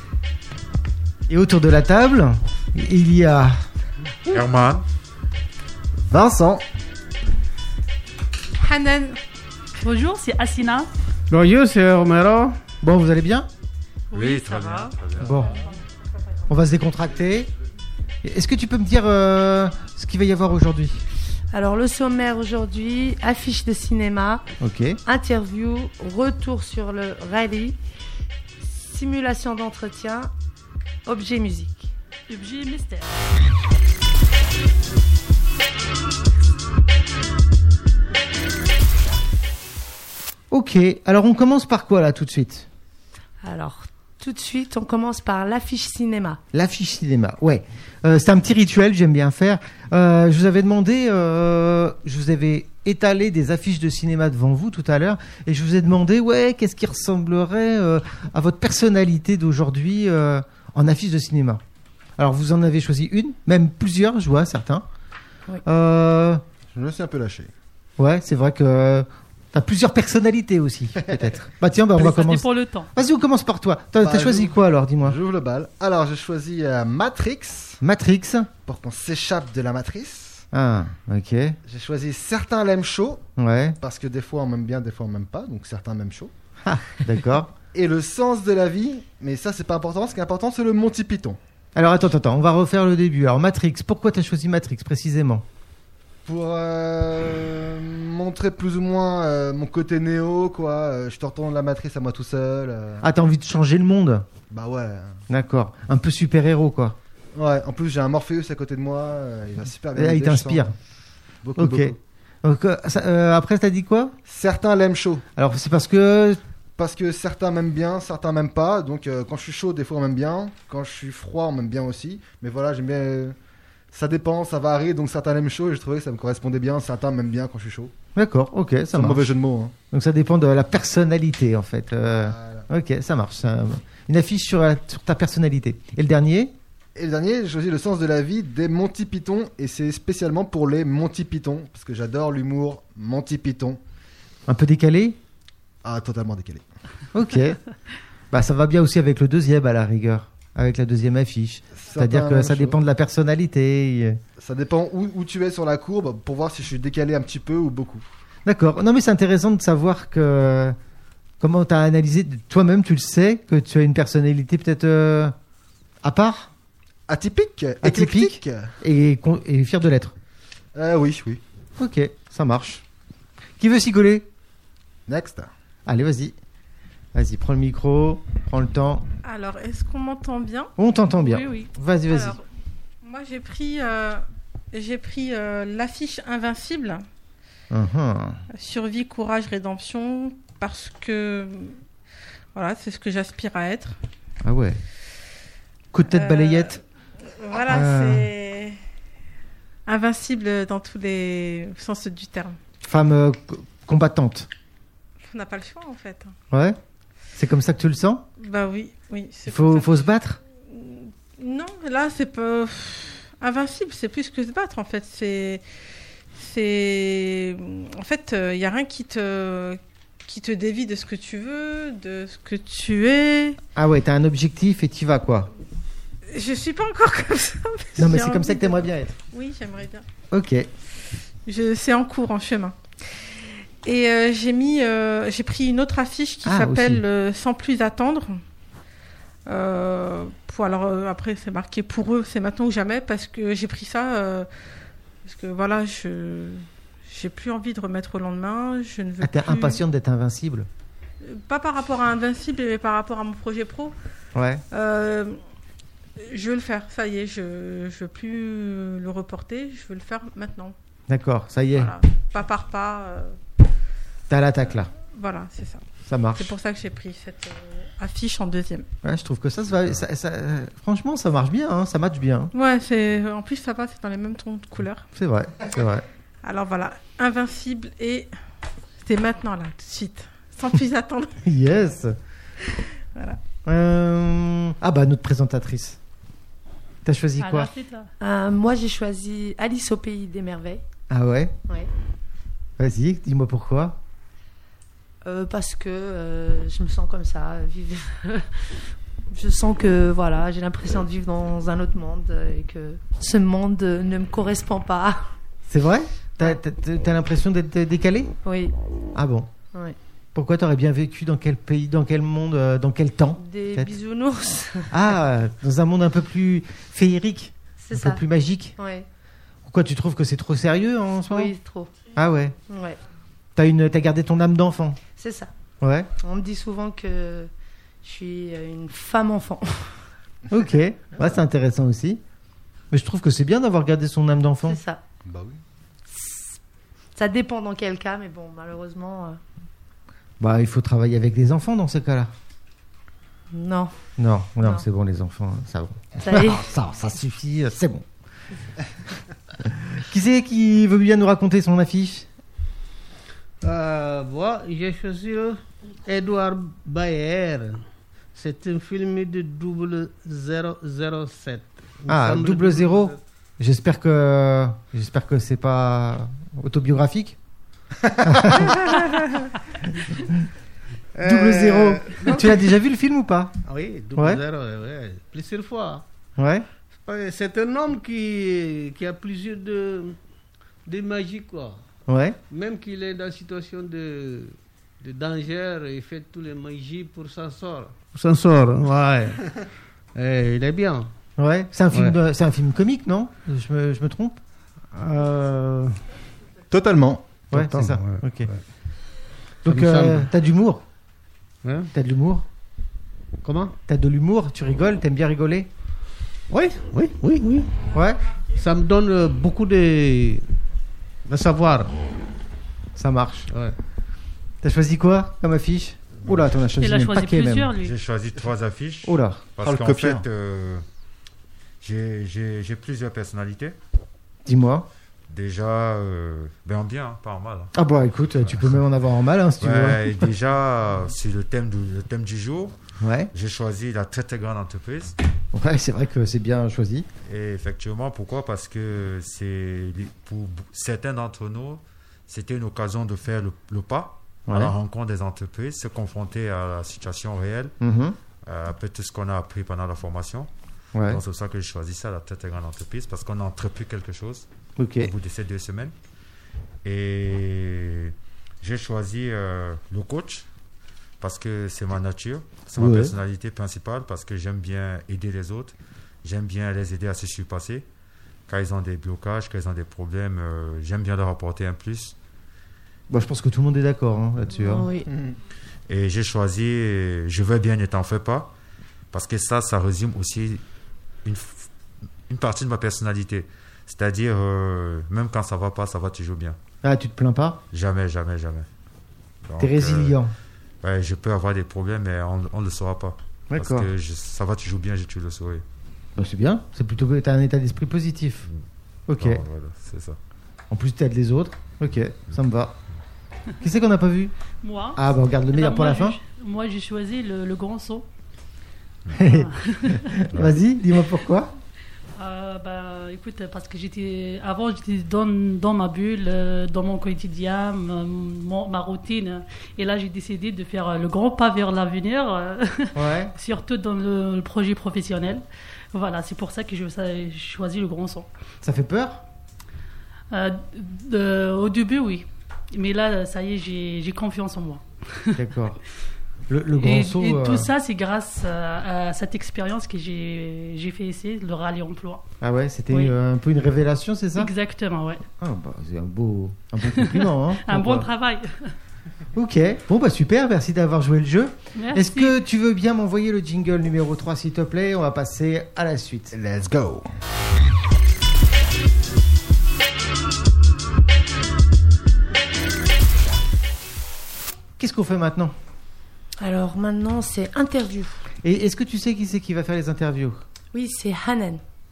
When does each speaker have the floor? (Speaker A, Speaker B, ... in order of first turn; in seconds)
Speaker A: 1.3-3.6, 12.8-13.5, 15.2-15.5, 16.5-17.5, 18.2-21.0, 24.6-25.0, 40.5-42.7, 46.5-61.6, 62.2-64.8, 65.6-66.4, 68.0-75.2, 77.8-78.5, 80.5-81.6, 83.4-83.8, 86.6-87.5, 91.7-95.4, 103.0-104.3, 105.3-107.0, 109.9-110.7, 111.5-114.1, 115.3-116.4, 128.1-129.3, 129.9-136.5, 144.5-145.2, 147.1-147.6, 148.3-154.2, 158.4-160.8, 161.4-165.3, 166.0-166.5, 167.8-170.1, 171.8-172.8, 173.6-174.3, 175.8-176.3, 177.1-179.1, 180.8-182.4, 187.7-188.4, 194.4-194.8, 195.9-196.8, 197.7-198.3, 202.8-204.5, 206.5-206.8, 207.3-208.2, 209.5-210.4, 223.8-225.5, 227.9-229.1, 230.3-230.7, 236.4-237.0, 249.2-250.7, 254.3-254.6, 261.1-261.9, 264.3-264.9, 266.1-266.5, 269.0-272.5, 275.1-276.0, 281.4-282.2, 283.6-286.0, 287.0-287.7, 291.1-291.5, 292.8-294.0, 305.7-308.3, 309.1-309.5, 310.3-313.9, 314.9-318.7, 319.6-321.5, 322.1-322.5, 323.6-325.0, 325.8-326.1, 330.5-332.2, 332.9-334.8, 340.4-342.3, 344.2-348.1, 349.6-352.3, 362.1-367.4, 368.2-368.7, 371.2-373.6, 374.1-374.4, 376.4-376.7, 382.1-382.4, 391.4-394.4, 397.5-398.5, 399.6-400.8, 401.9-402.4, 403.9-405.7, 407.9-408.2, 412.9-413.5, 414.6-417.7, 419.0-419.5, 424.4-424.9, 427.7-430.3, 433.0-433.3, 435.5-437.1, 444.5-444.7, 447.8-448.2, 450.9-451.2, 454.8-455.1, 462.8-463.1, 473.1-474.9, 486.8-487.6, 489.6-490.3, 493.5-493.9, 496.1-498.5, 499.1-499.4, 500.7-502.7, 503.6-504.3, 504.9-506.2, 509.1-511.5, 522.9-523.3, 528.6-529.2, 535.3-535.8, 536.5-537.7, 542.4-544.5, 545.4-548.1, 549.3-556.3, 564.8-565.5, 568.4-570.4
Speaker B: 4.3-4.8, 14.1-15.6, 417.8-420.8, 421.8-423.8, 425.3-427.7, 429.6-432.8, 433.3-435.1, 437.2-447.7, 448.4-450.5, 451.1-455.9, 456.8-460.5, 461.2-467.8, 468.5-472.1, 475.9-478.5, 479.1-480.6, 481.2-481.7, 482.3-486.6, 487.7-488.7, 489.4-490.2, 490.8-495.6, 499.2-500.2
Speaker C: 6.0-6.6, 66.7-67.5, 74.0-77.8, 78.6-80.5, 81.7-83.2, 83.8-86.3, 87.7-91.4, 96.2-103.1, 104.5-105.2, 107.3-110.7, 111.4-112.0, 114.2-115.2, 116.8-123.3, 123.9-127.9, 128.9-129.7, 132.2-132.6, 136.9-143.8, 145.8-146.6, 151.8-152.8, 154.4-158.0, 167.1-168.7, 170.7-171.4, 175.1-175.5, 335.2-335.6, 368.6-368.9, 396.7-397.4, 419.6-420.2, 475.1-475.4, 556.3-557.1
Speaker D: 8.6-9.2, 179.2-180.7, 182.1-182.4, 183.0-187.0, 188.5-191.8, 192.5-193.9, 196.1-196.8, 197.4-198.8, 199.8-202.6, 205.2-206.3, 208.4-210.1, 210.7-215.6, 216.3-223.6, 226.3-230.0, 231.4-233.3, 233.8-238.4, 239.5-244.5, 245.2-249.8, 251.2-253.9, 254.7-255.4, 256.2-260.7, 261.7-263.4, 265.1-268.9, 272.5-275.0, 276.4-278.3, 279.0-281.5, 283.1-283.4
Speaker E: 9.8-10.9, 14.1-14.9, 32.3-33.2, 72.0-72.9, 287.4-288.1, 416.8-417.9, 504.6-505.0, 505.5-508.1, 509.2-510.3, 512.1-528.3, 530.3-535.3, 536.8-542.2, 544.4-545.2, 547.0-548.7, 551.8-552.4
Speaker F: 11.3-12.6, 353.6-363.2, 371.1-372.7, 373.6-376.0, 377.0-380.2, 380.9-381.8, 382.5-389.5, 390.1-391.1, 391.9-392.2, 394.9-396.0, 397.5-398.6, 399.6-400.3, 401.6-401.9, 403.4-403.7, 406.5-407.8, 408.6-410.5, 411.2-412.0, 413.5-413.8
Speaker G: 21.5-24.4, 25.0-27.8, 28.6-30.3, 31.1-31.9, 43.4-46.4, 288.2-290.8, 295.2-298.7, 299.3-305.3, 308.4-308.7, 313.4-314.9, 317.8-318.2, 318.8-319.1, 321.3-321.9, 322.7-323.0, 325.2-325.5, 326.2-327.5, 328.0-329.9, 334.6-335.0, 336.1-336.5, 337.1-339.4, 343.5-343.9, 346.2-346.6, 474.5-475.1, 566.4-568.2, 570.7-571.6